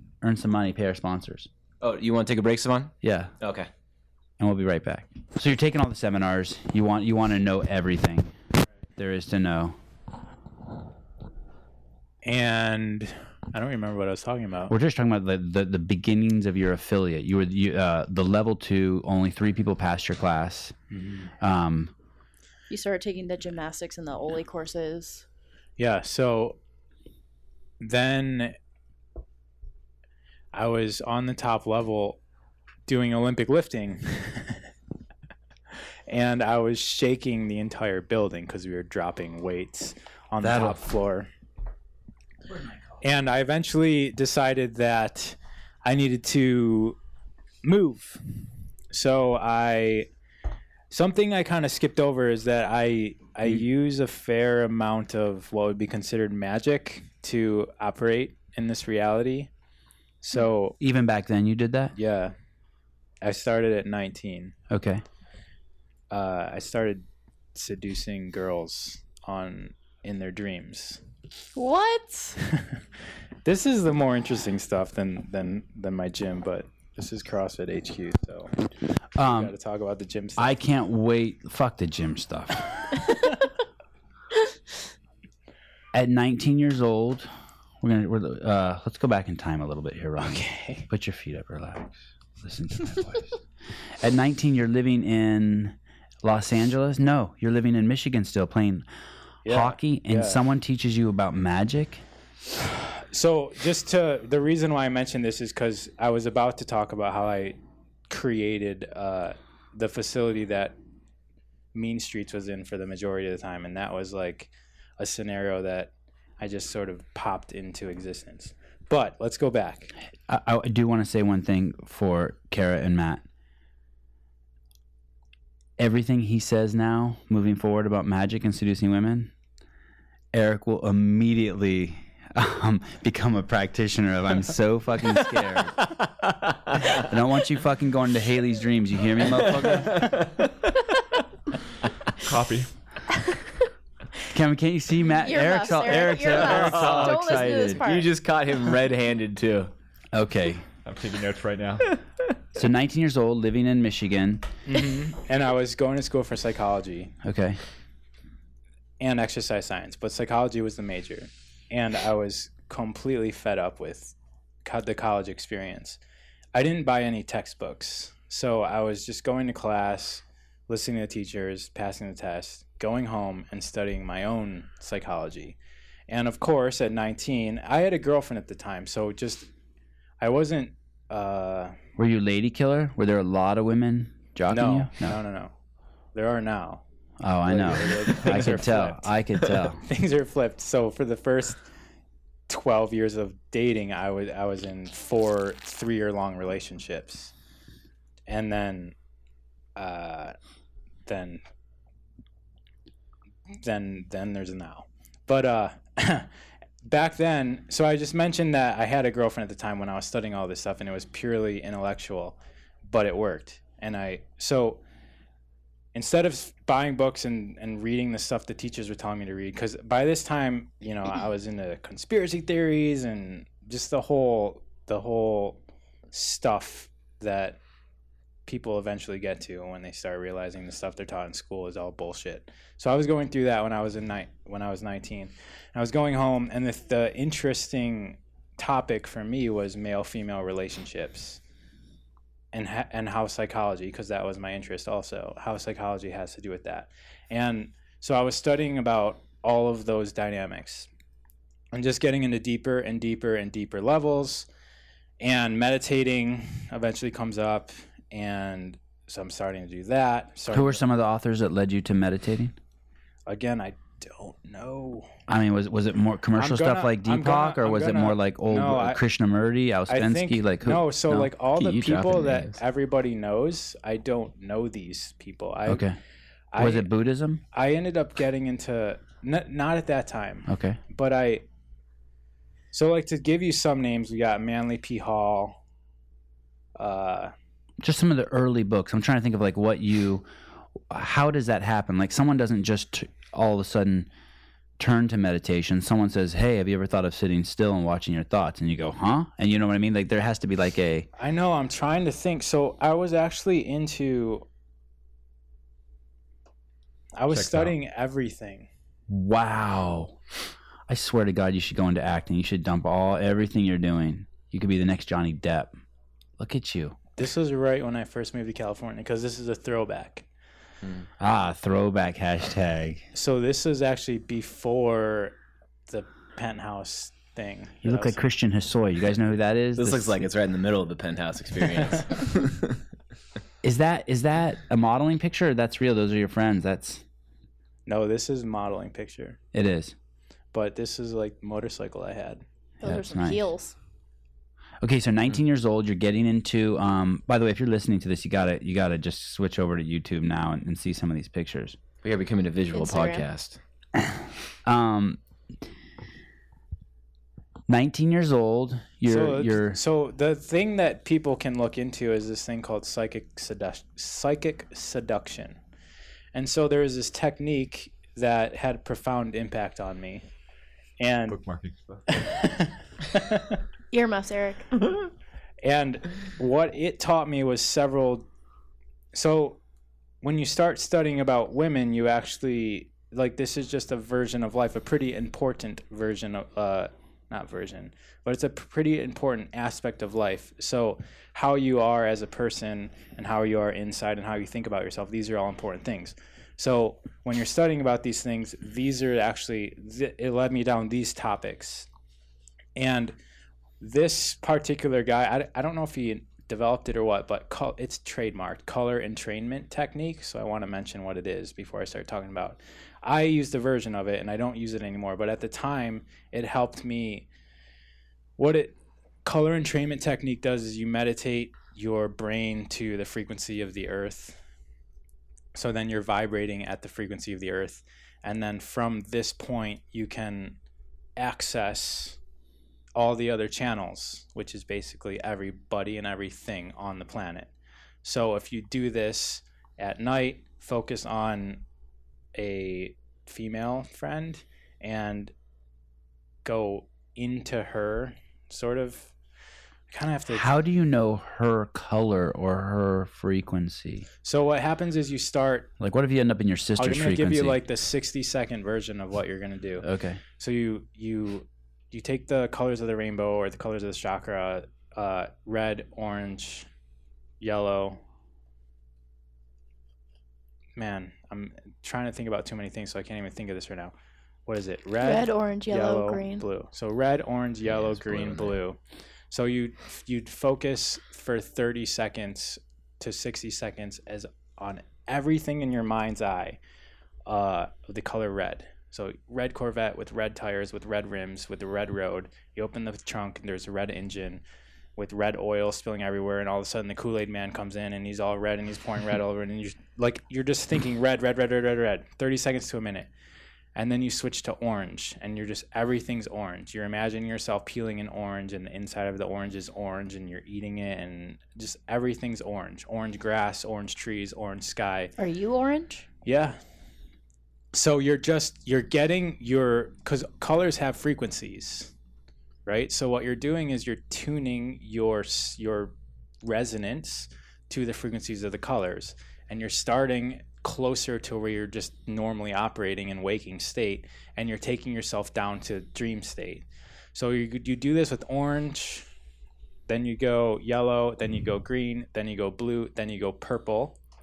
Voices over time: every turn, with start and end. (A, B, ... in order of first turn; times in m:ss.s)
0:00.2-0:01.5 A
0:01.8-0:03.7 B
0:03.0-0:03.3 A
0:04.4-0:08.3 A
0:09.0-0:09.8 A
0:12.2-0:14.7 C
0:14.7-0:20.8 A
0:20.9-0:21.3 C
0:21.4-0:21.9 A
0:22.7-0:25.2 D
0:25.8-0:26.6 C
0:27.8-0:28.6 C
0:30.5-0:32.2 C
0:32.9-0:34.6 C
0:36.1-0:41.3 C
0:40.4-0:40.8 A
0:43.0-0:47.0 C
0:47.6-0:48.2 C
0:48.9-0:50.1 C
0:50.9-0:59.5 C
1:00.2-1:00.8 C
1:00.8-1:01.9 A
1:02.0-1:02.3 C
1:03.2-1:04.6 C
1:04.7-1:05.0 A
1:06.1-1:11.0 C
1:11.6-1:12.4 D
1:13.4-1:20.6 C
1:19.2-1:19.5 A
1:20.4-1:23.0 A
1:25.9-1:33.4 A
1:30.2-1:30.9 C
1:34.0-1:38.8 A
1:39.4-1:40.4 C
1:39.5-1:42.0 A
1:42.6-1:47.6 C
1:48.1-1:50.7 C
1:51.7-1:59.9 C
2:00.3-2:03.2 A
2:05.8-2:09.3 A
2:10.3-2:15.9 A
2:16.0-2:17.0 B
2:16.9-2:20.0 A
2:19.4-2:20.7 B
2:22.2-2:22.7 E
2:24.3-2:27.8 A
2:25.2-2:28.1 D
2:25.9-2:29.7 B
2:30.1-2:30.6 A
2:30.8-2:31.9 E
2:32.6-2:34.4 A
2:34.6-2:37.2 C
2:37.2-2:37.6 A
2:39.0-2:46.0 C
2:46.5-2:55.6 C
2:56.1-2:59.5 C
3:00.2-3:01.8 C
3:02.0-3:05.2 A
3:04.5-3:05.5 C
3:06.1-3:06.8 C
3:07.2-3:09.8 A
3:07.5-3:09.0 C
3:09.9-3:11.6 C
3:12.5-3:17.3 C
3:18.3-3:18.9 C
3:19.8-3:20.3 C
3:21.0-3:21.4 C
3:23.5-3:26.3 C
3:26.8-3:34.8 C
3:35.9-3:45.6 C
3:46.1-3:47.6 C
3:48.4-4:01.4 C
4:02.5-4:10.9 C
4:11.7-4:14.5 C
4:15.2-4:20.8 C
4:20.5-4:22.6 A
4:23.2-4:25.1 C
4:25.3-4:31.3 A
4:26.4-4:29.0 C
4:29.9-4:35.8 C
4:31.6-4:32.6 B
4:35.7-4:36.0 A
4:36.5-4:36.9 C
4:36.6-4:37.4 A
4:37.5-4:41.4 C
4:40.5-4:40.8 A
4:42.7-4:45.6 C
4:46.8-4:47.3 C
4:47.8-4:50.2 A
4:50.9-4:54.1 A
4:54.8-5:01.1 A
5:01.2-5:04.4 C
5:07.2-5:08.7 C
5:07.4-5:07.7 A
5:09.1-5:10.2 A
5:10.9-5:15.7 A
5:16.4-5:17.0 A
5:17.2-5:20.2 C
5:21.2-5:23.0 A
5:23.1-5:25.4 C
5:25.9-5:28.2 C
5:27.8-5:30.3 A
5:29.8-5:32.8 B
5:33.6-5:37.0 A
5:37.9-5:39.4 C
5:39.5-5:39.9 A
5:40.5-5:42.4 C
5:42.8-5:43.7 D
5:42.8-5:43.4 A
5:44.8-5:51.8 A
5:52.0-5:53.6 B
5:52.7-5:53.3 D
5:54.0-5:55.2 A
5:57.7-5:59.8 A
5:59.1-6:05.6 C
6:06.3-6:10.2 C
6:11.0-6:11.4 C
6:11.3-6:12.2 E
6:12.1-6:13.6 C
6:13.9-6:15.1 D
6:15.6-6:18.2 C
6:19.1-6:19.6 C
6:20.2-6:41.9 C
6:42.8-6:43.1 C
6:43.8-6:57.3 C
6:58.4-7:04.4 C
7:05.5-7:10.6 C
7:11.2-7:12.2 C
7:12.9-7:17.5 C
7:18.0-7:21.6 C
7:22.3-7:25.3 C
7:26.4-7:29.1 C
7:29.9-7:30.5 C
7:30.3-7:34.0 A
7:34.2-7:35.7 C
7:35.8-7:37.6 A
7:36.8-7:46.7 C
7:39.8-7:40.2 A
7:47.4-7:48.0 C
7:50.8-7:53.9 C
7:54.5-7:58.8 C
7:55.0-7:56.4 D
7:57.7-7:58.6 B
7:59.3-8:06.6 C
8:07.2-8:14.4 C
8:15.0-8:23.1 C
8:23.7-8:35.1 C
8:35.2-8:36.1 D
8:36.2-8:36.6 C
8:37.7-8:41.9 C
8:42.6-8:59.0 C
8:59.9-9:04.0 C